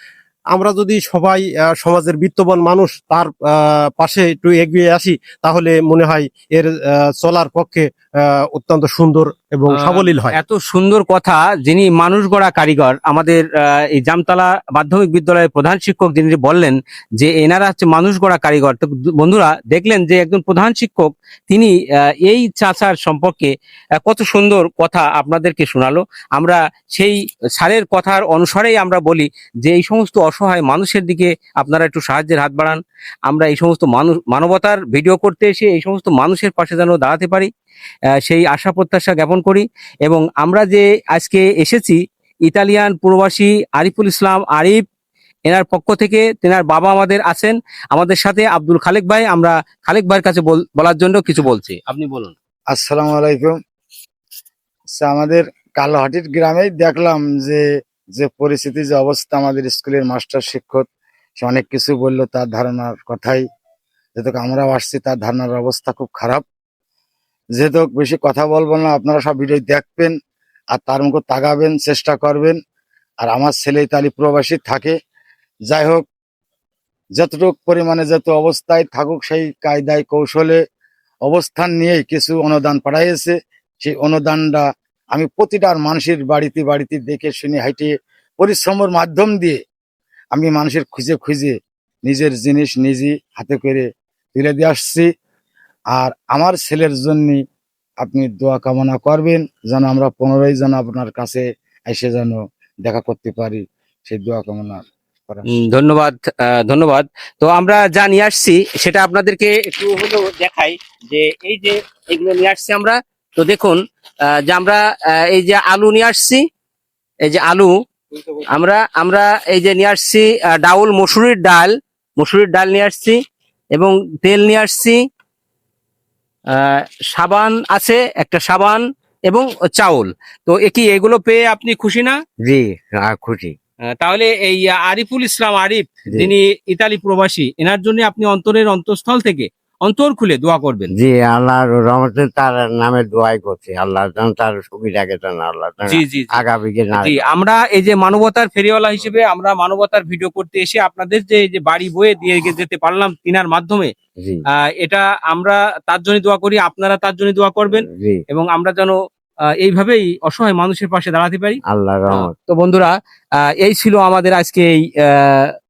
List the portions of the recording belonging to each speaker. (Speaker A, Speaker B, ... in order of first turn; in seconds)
Speaker A: 0.5-10.3
Speaker B: 9.7-21.7, 22.2-23.5, 24.0-37.5, 38.2-44.8, 45.5-52.3, 105.6-113.8, 114.5-116.4, 117.2-117.7, 118.5-123.2, 123.8-125.0, 126.5-132.2, 134.0-140.9, 145.9-153.9, 154.8-158.9, 159.6-161.6, 162.1-162.9, 163.6-165.5
Speaker C: 52.7-53.5, 55.0-57.6, 58.1-60.8, 61.4-63.4, 64.2-66.4, 67.6-70.1, 70.7-72.6, 73.2-74.9, 75.7-76.0, 77.2-80.6, 81.2-89.6, 90.3-95.1, 95.9-97.4, 98.0-105.5
Speaker D: 132.5-133.5, 141.0-147.2, 157.8-158.2, 161.7-162.3